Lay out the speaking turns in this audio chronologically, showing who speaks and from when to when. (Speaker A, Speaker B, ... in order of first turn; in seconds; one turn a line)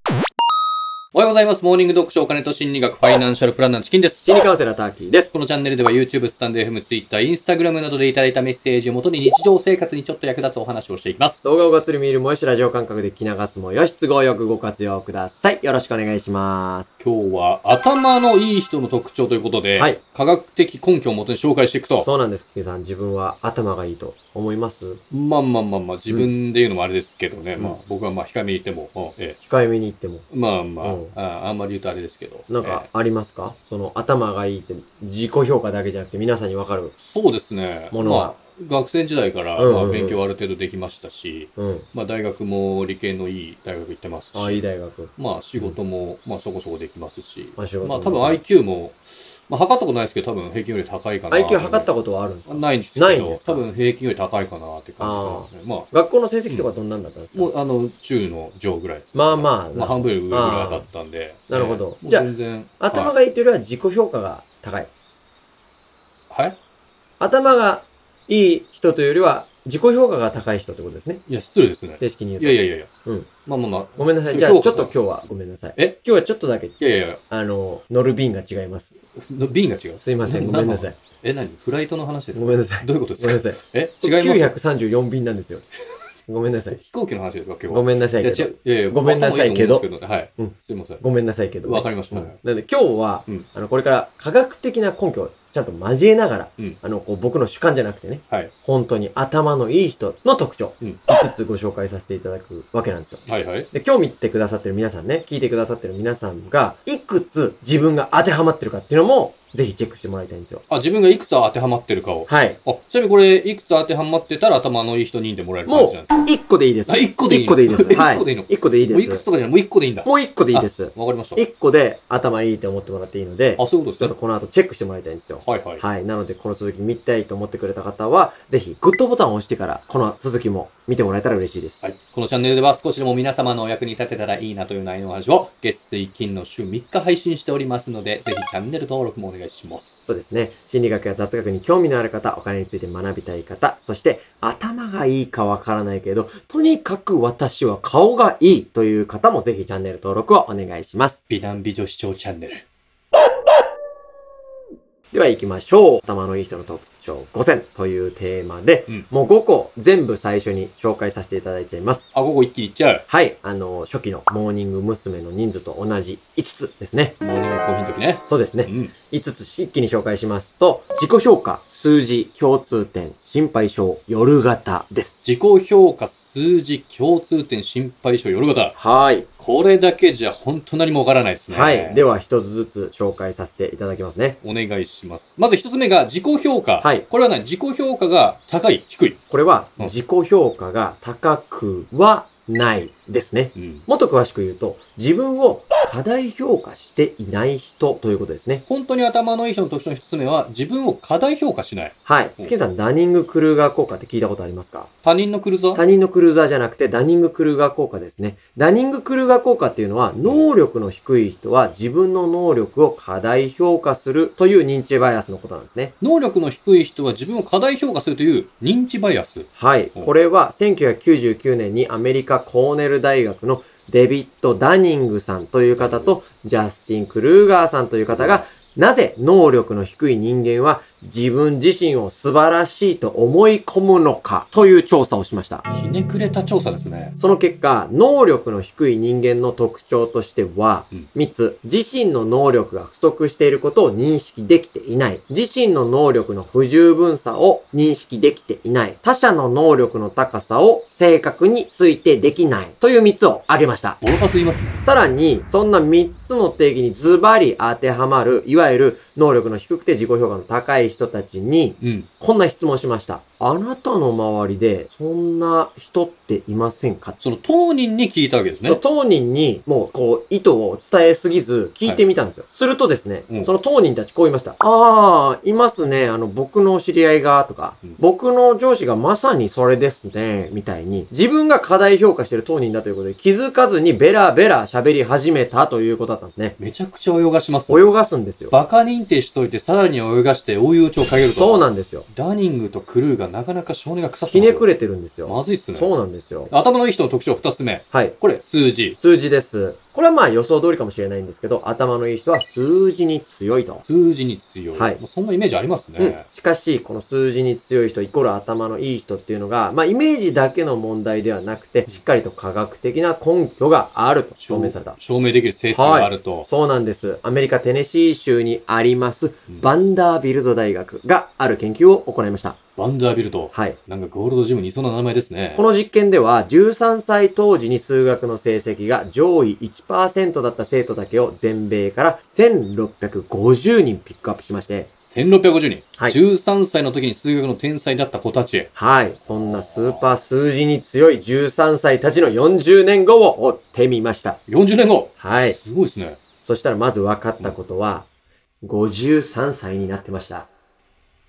Speaker A: 1.1-4.3
Speaker B: 4.2-5.3
Speaker A: 5.3-11.4
Speaker B: 11.4-16.9
Speaker A: 17.0-22.1
Speaker B: 21.9-25.0
Speaker A: 25.1-29.4
Speaker B: 29.4-30.2
Speaker A: 30.3-32.9
Speaker B: 30.8-31.1
Speaker B: 32.5-36.9
Speaker A: 37.0-51.9
Speaker B: 37.9-38.3
Speaker B: 39.6-40.2
Speaker B: 41.6-41.9
Speaker B: 44.3-45.8
Speaker B: 47.6-48.4
Speaker B: 51.3-53.6
Speaker A: 52.5-55.9
Speaker B: 55.0-57.5
Speaker A: 57.3-63.1
Speaker B: 59.1-60.9
Speaker B: 61.5-62.3
Speaker B: 62.8-64.9
Speaker A: 66.3-66.6
Speaker B: 67.2-71.2
Speaker A: 71.3-72.9
Speaker B: 72.0-73.3
Speaker A: 73.5-75.0
Speaker B: 74.0-76.8
Speaker A: 76.8-77.2
Speaker B: 77.3-78.9
Speaker A: 79.2-84.5
Speaker B: 80.0-81.0
Speaker B: 82.3-85.7
Speaker B: 86.3-86.8
Speaker A: 86.7-91.0
Speaker B: 87.7-89.8
Speaker B: 90.4-110.6
Speaker A: 91.6-92.4
Speaker A: 103.2-103.7
Speaker A: 110.7-116.3
Speaker B: 112.3-112.6
Speaker B: 115.7-119.2
Speaker A: 116.9-121.4
Speaker B: 120.0-131.8
Speaker A: 123.6-124.1
Speaker A: 125.4-125.8
Speaker A: 131.8-139.9
Speaker B: 140.1-151.2
Speaker A: 151.3-152.6
Speaker B: 155.1-162.1
Speaker A: 162.1-163.0
Speaker B: 163.1-167.2
Speaker A: 167.2-168.9
Speaker B: 168.2-175.2
Speaker A: 175.2-178.8
Speaker B: 178.8-179.3
Speaker A: 179.4-182.0
Speaker B: 181.5-184.4
Speaker A: 184.4-189.2
Speaker B: 189.3-198.6
Speaker A: 193.5-193.8
Speaker A: 198.7-202.5
Speaker B: 202.1-204.9
Speaker A: 205.0-205.8
Speaker B: 205.7-215.9
Speaker A: 216.0-220.1
Speaker B: 219.6-235.6
Speaker A: 225.8-226.2
Speaker A: 228.1-228.4
Speaker A: 235.7-237.1
Speaker B: 237.2-254.0
Speaker A: 254.0-254.8
Speaker B: 254.8-267.2
Speaker A: 261.8-262.1
Speaker A: 267.2-268.8
Speaker B: 268.6-286.6
Speaker A: 286.6-287.9
Speaker B: 287.7-288.5
Speaker A: 288.5-294.7
Speaker B: 291.3-292.1
Speaker B: 294.3-296.5
Speaker A: 295.2-295.9
Speaker A: 296.5-299.0
Speaker B: 297.9-298.2
Speaker B: 298.9-303.8
Speaker A: 303.8-306.2
Speaker B: 304.7-305.0
Speaker B: 306.0-315.0
Speaker A: 314.4-316.5
Speaker B: 315.7-322.6
Speaker A: 322.8-325.6
Speaker B: 325.5-334.9
Speaker A: 335.0-338.7
Speaker B: 338.7-344.4
Speaker A: 339.3-340.1
Speaker A: 344.5-346.2
Speaker B: 345.2-345.6
Speaker B: 346.4-348.1
Speaker B: 348.6-350.5